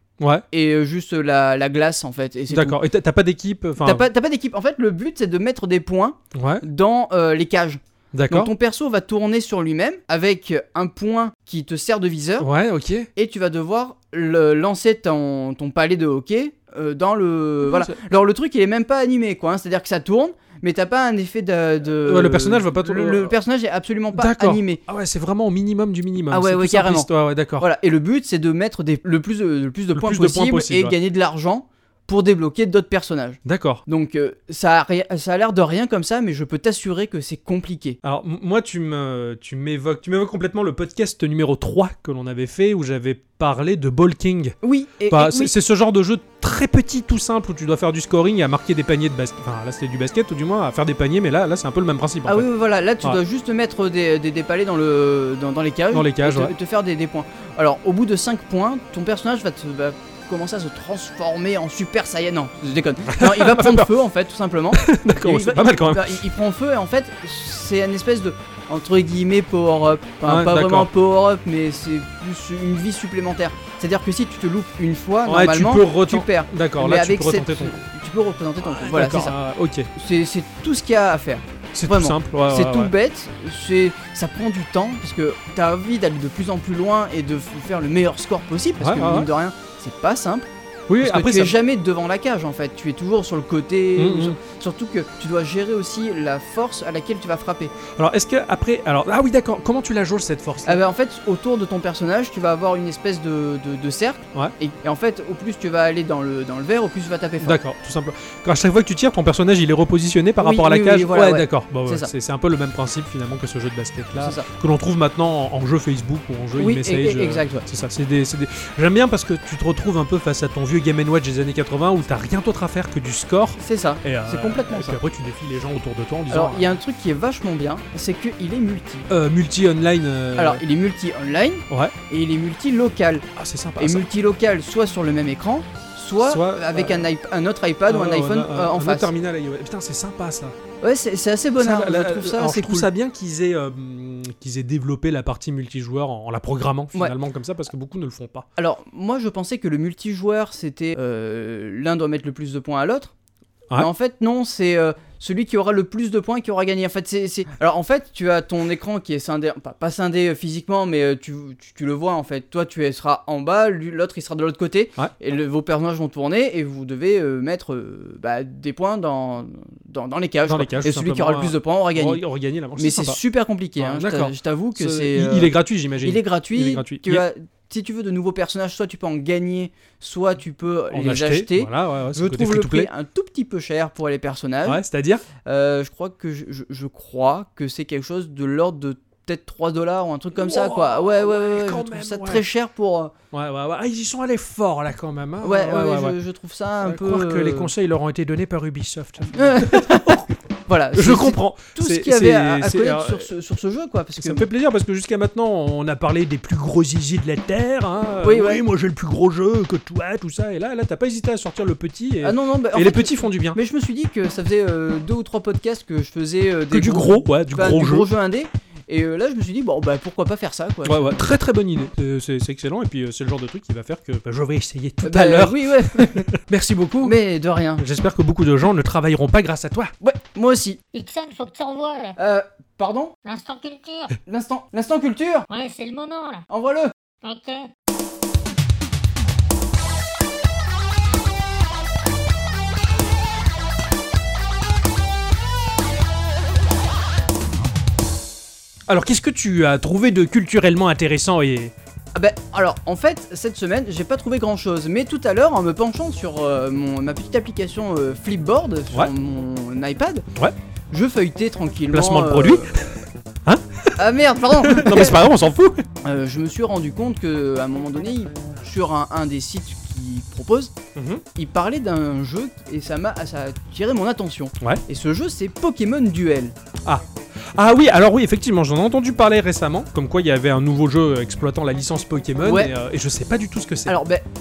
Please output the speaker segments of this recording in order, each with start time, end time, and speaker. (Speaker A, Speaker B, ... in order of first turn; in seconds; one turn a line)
Speaker A: 0.5-2.8
Speaker B: 2.5-4.0
Speaker A: 3.8-12.5
Speaker B: 6.3-6.6
Speaker B: 8.1-8.5
Speaker B: 12.4-13.1
Speaker A: 13.2-24.8
Speaker B: 17.6-17.9
Speaker B: 22.0-23.4
Speaker B: 24.1-27.7
Speaker A: 26.3-38.0
Speaker B: 29.9-30.9
Speaker B: 33.4-33.8
Speaker B: 38.0-44.6
Speaker A: 44.6-45.5
Speaker B: 45.1-52.5
Speaker A: 52.2-79.3
Speaker B: 55.9-56.5
Speaker B: 63.1-63.9
Speaker B: 64.7-66.2
Speaker B: 70.2-70.9
Speaker B: 75.2-77.7
Speaker B: 78.6-79.9
Speaker A: 79.9-90.5
Speaker B: 81.7-82.9
Speaker B: 88.8-89.3
Speaker B: 90.9-91.5
Speaker A: 91.0-97.7
Speaker B: 94.0-94.3
Speaker B: 97.9-100.8
Speaker A: 100.6-107.6
Speaker B: 107.4-126.7
Speaker A: 110.4-112.1
Speaker A: 114.2-114.5
Speaker A: 116.6-117.6
Speaker A: 123.6-125.0
Speaker A: 126.3-129.1
Speaker B: 129.1-130.6
Speaker A: 130.4-133.2
Speaker B: 133.3-134.1
Speaker A: 133.8-139.1
Speaker B: 136.2-137.1
Speaker B: 137.8-140.6
Speaker A: 140.8-142.9
Speaker B: 141.6-148.4
Speaker A: 148.6-153.1
Speaker A: 153.8-172.2
Speaker B: 170.5-173.2
Speaker A: 172.8-184.8
Speaker B: 173.8-177.2
Speaker B: 180.9-182.9
Speaker B: 184.6-185.2
Speaker A: 185.4-193.1
Speaker B: 190.3-192.4
Speaker B: 193.3-196.2
Speaker A: 195.4-197.7
Speaker B: 196.8-200.3
Speaker A: 199.3-204.5
Speaker B: 200.9-203.3
Speaker B: 204.2-213.6
Speaker A: 208.2-208.6
Speaker A: 212.2-221.2
Speaker B: 216.7-218.1
Speaker B: 220.8-227.2
Speaker A: 225.0-226.3
Speaker A: 227.0-227.8
Speaker B: 227.8-229.9
Speaker A: 230.0-230.8
Speaker C: 230.9-232.1
Speaker A: 232.2-233.1
Speaker C: 233.2-234.2
Speaker A: 234.2-235.4
Speaker C: 235.5-236.4
Speaker A: 236.5-236.9
Speaker C: 237.2-237.7
Speaker B: 248.9-251.7
Speaker A: 252.1-260.2
Speaker A: 260.9-262.8
Speaker B: 261.9-262.9
Speaker B: 263.4-263.9
Speaker A: 264.0-265.2
Speaker B: 264.6-265.8
Speaker A: 266.0-270.7
Speaker B: 270.9-271.2
Speaker A: 271.4-276.5
Speaker B: 277.5-283.9
Speaker A: 282.4-282.7
Speaker A: 283.9-284.2